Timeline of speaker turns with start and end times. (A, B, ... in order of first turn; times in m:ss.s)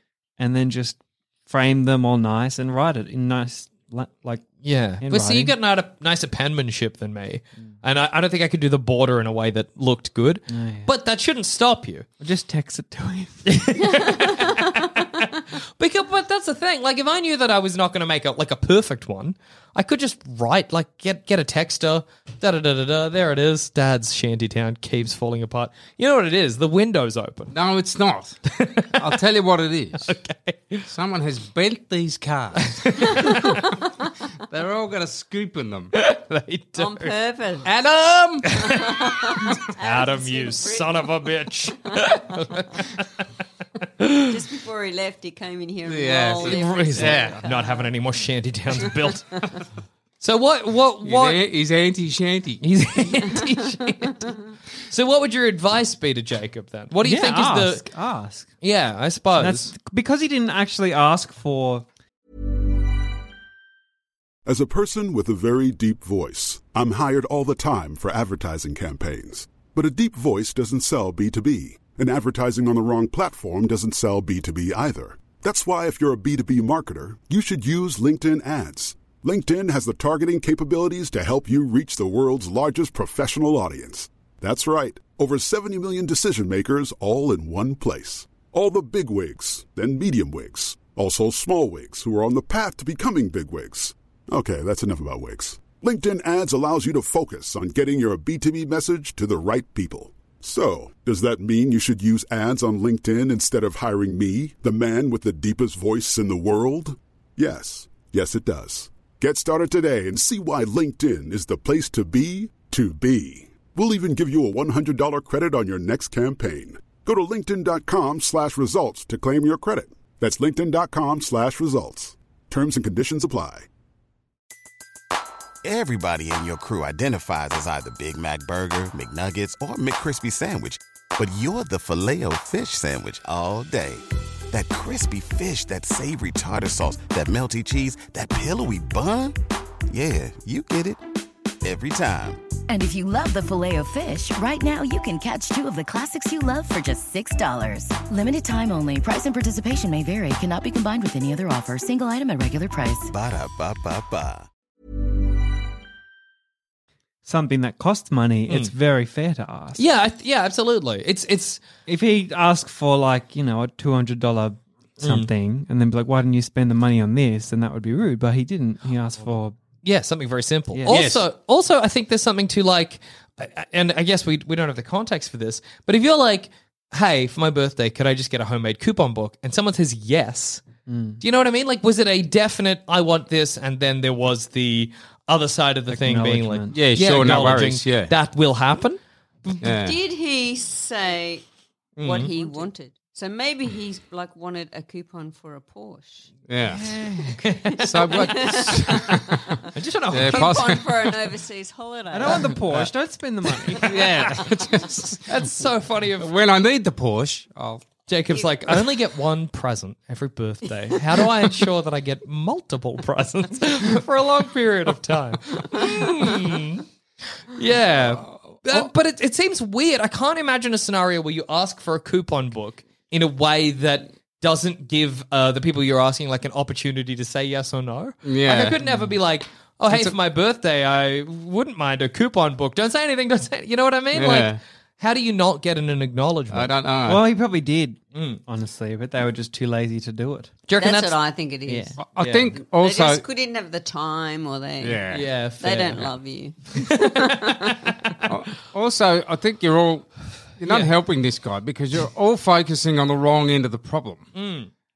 0:00.4-0:04.5 A
0:04.6-0:12.1 B
0:05.0-0:05.5 A
0:10.5-0:10.9 A
0:12.2-0:13.8 A
0:13.5-0:27.5 B
0:14.0-0:14.8 C
0:27.5-0:28.4 D
0:28.5-0:29.2 B
0:29.0-0:30.2 D
0:30.0-0:30.9 B
0:30.9-0:33.6 D
0:32.7-0:33.6 B
0:34.5-0:35.9 D
0:35.9-0:37.1 B
0:36.8-0:37.7 C
0:37.6-0:38.5 D
0:38.5-0:43.2 B
0:38.7-0:41.2 C
0:41.9-0:42.2 C
0:44.0-0:44.4 B
0:44.3-0:47.9 C
0:45.9-0:47.4 D
0:46.4-0:49.5 B
0:48.8-0:49.6 C
0:50.2-0:51.4 B
0:51.0-0:52.6 D
0:52.6-0:54.4 B
0:54.9-0:57.9 B
0:57.0-0:58.5 A
0:58.6-0:59.7 B
0:59.4-1:01.9 A
1:04.5-2:03.7 E
2:05.6-2:19.4 F
2:19.9-2:21.0 F
2:21.6-2:22.5 F
2:22.7-2:33.1 G
2:33.1-2:34.5 F
2:37.3-2:39.8 A
2:39.8-2:41.6 B
2:41.9-2:49.6 A
2:45.0-2:45.3 B
2:49.8-3:00.6 B
2:50.7-2:51.0 A
2:50.9-2:51.2 D
3:00.9-3:01.2 A
3:01.2-3:09.7 B
3:05.9-3:06.8 A
3:06.7-3:08.1 D
3:09.6-3:10.0 D
3:09.8-3:11.4 C
3:12.0-3:12.5 B
3:12.0-3:16.3 C
3:16.5-3:17.0 D
3:16.7-3:17.4 A
3:17.4-3:18.8 B
3:17.7-3:19.7 C
3:17.8-3:19.6 D
3:19.7-3:20.8 B
3:20.1-3:21.2 D
3:20.2-3:22.5 C
3:22.1-3:23.9 A
3:23.7-3:25.3 D
3:25.3-3:26.3 B
3:26.2-3:27.9 D
3:28.1-3:36.9 B
3:37.5-3:56.7 B
3:38.2-3:38.9 D
3:48.2-3:48.8 D
3:48.8-3:49.2 A
3:54.1-3:54.6 D
3:56.5-3:57.2 D
3:57.0-4:00.5 A
3:58.1-3:58.4 B
4:00.7-4:01.2 B
4:00.8-4:02.0 C
4:01.7-4:01.9 A
4:02.0-4:03.2 D
4:02.2-4:02.5 B
4:02.5-4:08.2 C
4:04.8-4:05.2 D
4:05.1-4:06.1 B
4:06.7-4:07.9 B
4:08.3-4:14.3 D
4:10.6-4:10.9 B
4:14.4-4:14.7 B